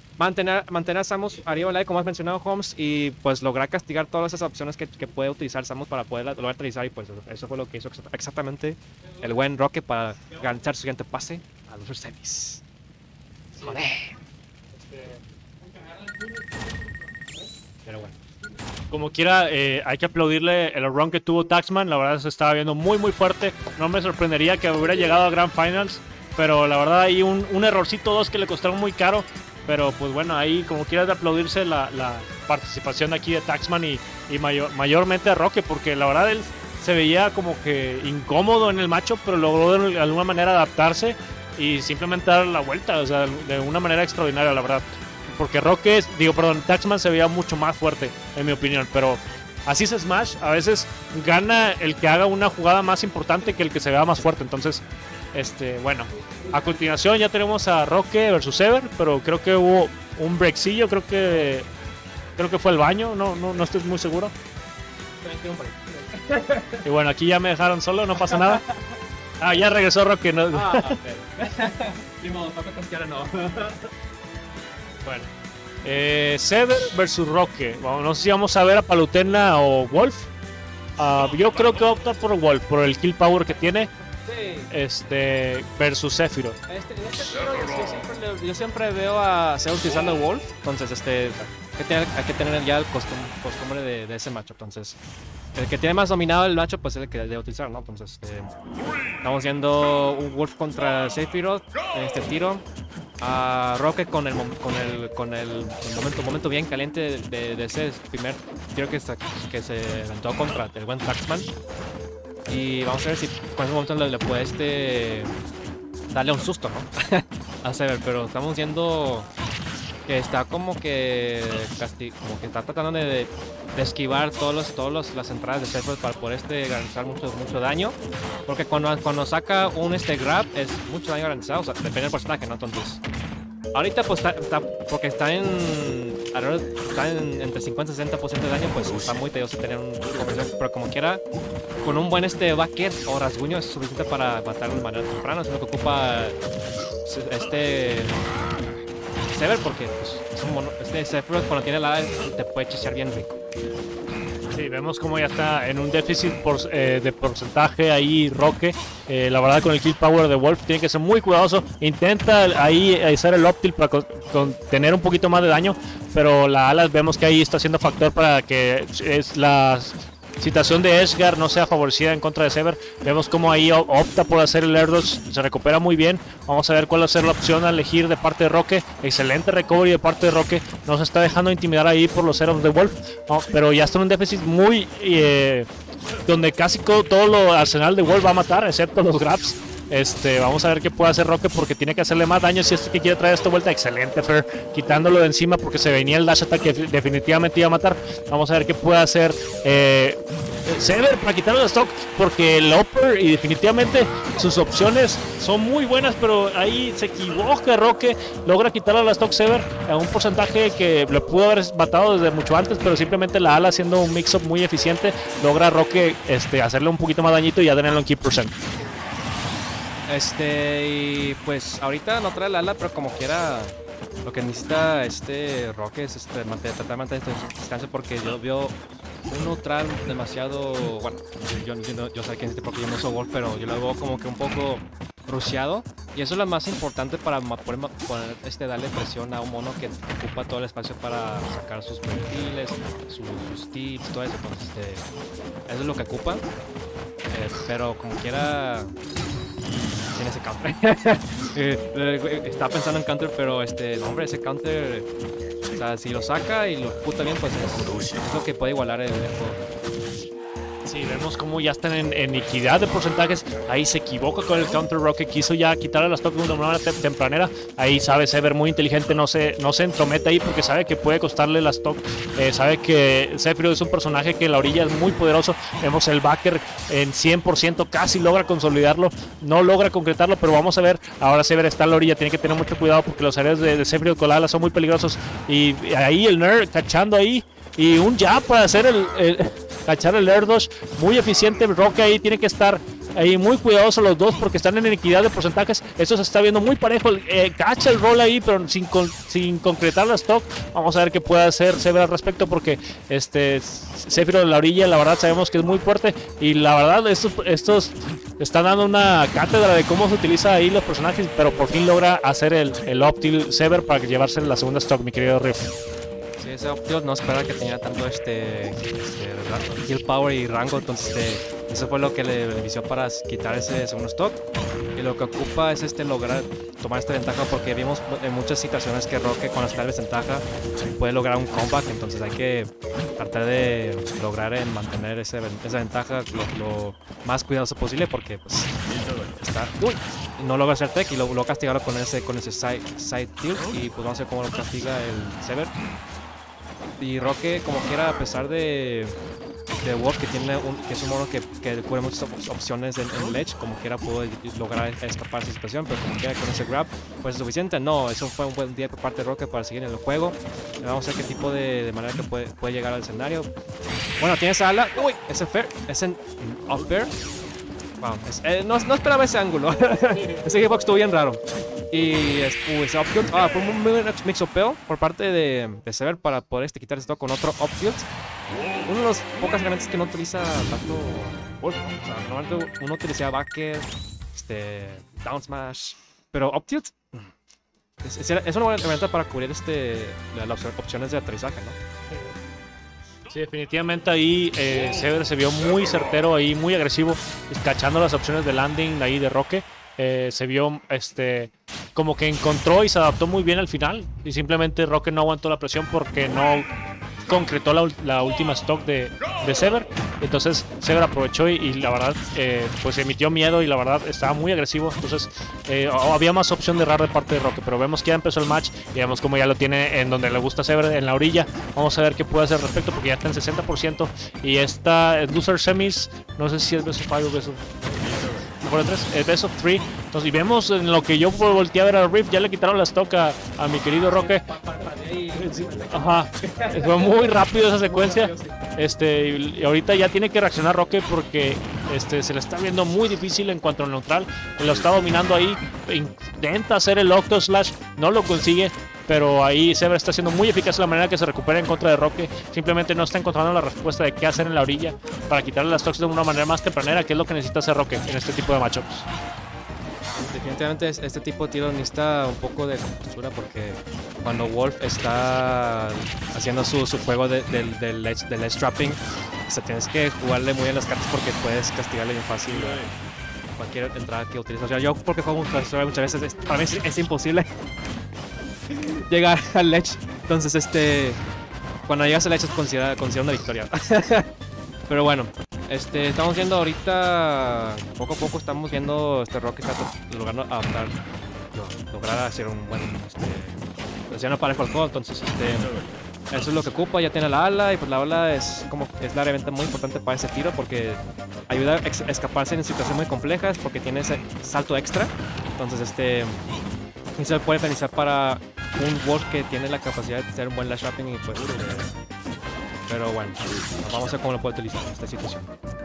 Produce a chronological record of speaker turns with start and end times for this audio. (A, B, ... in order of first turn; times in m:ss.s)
0:00.2-0:12.6 A
0:13.6-0:13.8 B
0:13.6-0:14.1 A
0:14.7-0:15.2 B
0:17.8-0:18.2 A
0:18.9-1:01.7 B
1:02.4-1:04.3 B
1:05.2-1:06.8 A
1:06.8-1:08.6 B
1:08.2-1:08.9 A
1:09.4-1:11.0 B
1:10.5-1:13.9 A
1:15.8-1:20.3 B
1:21.0-1:23.9 B
1:24.2-1:24.7 A
1:24.7-1:26.6 B
1:26.7-1:35.0 A
1:35.5-1:38.5 A
1:39.2-1:42.6 A
1:43.2-1:51.5 A
1:52.5-1:55.3 A
1:56.1-1:59.3 A
2:00.1-2:13.0 A
2:13.7-2:21.2 A
2:21.8-2:26.4 A
2:27.0-2:28.2 A
2:29.3-2:33.3 A
2:34.5-3:05.7 B
3:06.2-3:38.5 B
3:40.1-3:48.7 A
3:49.3-4:05.0 A
4:05.7-4:06.5 A
4:07.3-4:08.9 A
4:10.1-4:15.1 A
4:15.7-4:19.6 A
4:20.8-5:15.7 B
5:16.4-5:24.4 A
5:25.0-5:38.8 A
5:39.3-5:45.7 A
5:47.0-5:49.1 A
5:49.8-6:03.5 A
6:04.2-6:07.1 A
6:08.0-6:18.1 A
6:10.1-6:10.5 B
6:18.8-6:27.3 A
6:28.0-6:31.8 A
6:32.1-6:32.3 B
6:33.3-6:46.7 B
6:47.3-7:07.7 B
7:08.6-7:14.4 B
7:14.1-7:18.5 A
7:15.4-7:39.1 B
7:40.1-7:52.9 A
7:53.6-7:57.5 A
7:58.7-8:01.2 A
8:01.9-8:04.3 A
8:04.9-8:11.0 A
8:11.5-8:15.8 A
8:16.3-8:26.4 A
8:27.2-8:31.9 A
8:32.9-8:35.5 A